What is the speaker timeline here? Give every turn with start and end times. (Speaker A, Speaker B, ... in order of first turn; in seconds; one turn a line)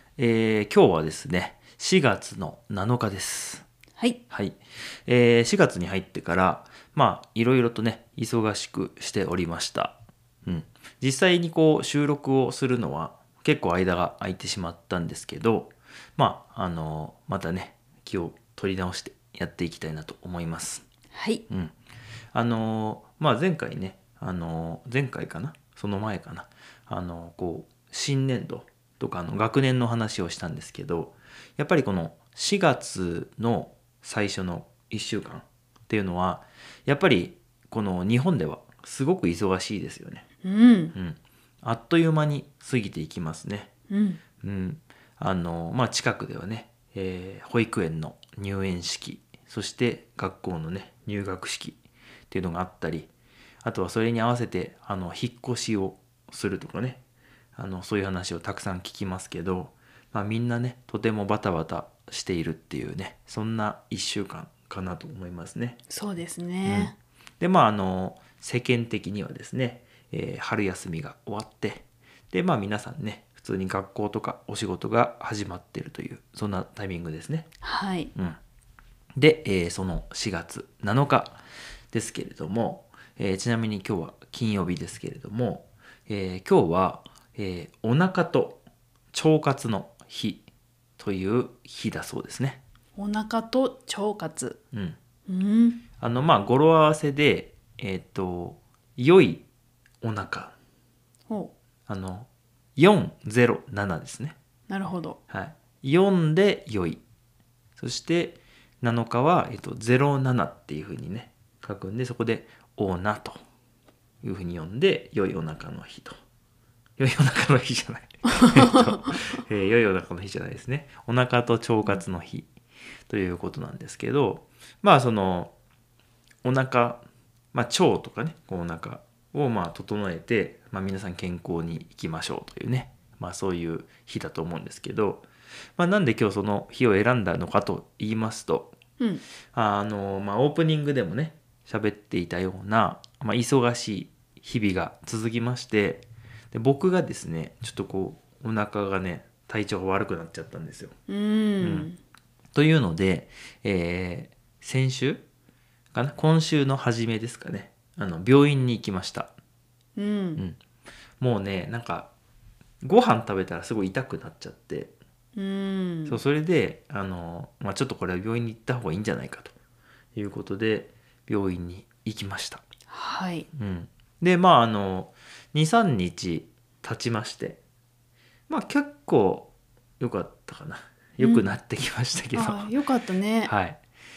Speaker A: 0.2-3.7
Speaker A: 4.3-20.9
Speaker B: 21.1-21.4
Speaker A: 21.5-21.8
Speaker A: 22.3-40.2
Speaker B: 40.4-40.9
Speaker A: 40.9-43.7
Speaker B: 43.9-44.2
Speaker A: 44.4-51.8
Speaker A: 52.3-53.1
Speaker A: 53.6-57.0
Speaker A: 57.6-65.8
Speaker B: 65.9-67.0
Speaker A: 66.7-77.5
Speaker B: 77.6-78.1
Speaker A: 79.2-81.4
Speaker A: 81.9-88.6
Speaker A: 89.1-90.4
Speaker A: 91.0-92.6
Speaker B: 93.0-94.6
Speaker A: 94.7-95.0
Speaker B: 95.3-95.8
Speaker A: 96.0-99.5
Speaker A: 100.0-100.5
Speaker A: 101.9-104.4
Speaker B: 104.7-105.2
Speaker A: 105.3-107.0
Speaker A: 107.8-113.4
Speaker A: 114.2-116.2
Speaker A: 117.0-122.5
Speaker A: 123.1-125.5
Speaker A: 126.4-135.3
Speaker A: 135.8-138.7
Speaker A: 139.5-150.9
Speaker B: 151.1-152.0
Speaker A: 151.6-151.9
Speaker A: 152.6-155.2
Speaker A: 155.9-159.3
Speaker B: 160.0-160.4
Speaker A: 161.2-162.1
Speaker A: 162.8-164.9
Speaker B: 165.4-166.2
Speaker A: 166.1-169.5
Speaker A: 170.2-172.6
Speaker B: 172.9-173.5
Speaker A: 173.5-177.6
Speaker A: 178.5-182.7
Speaker B: 181.2-181.4
Speaker B: 182.3-183.5
Speaker A: 183.4-183.8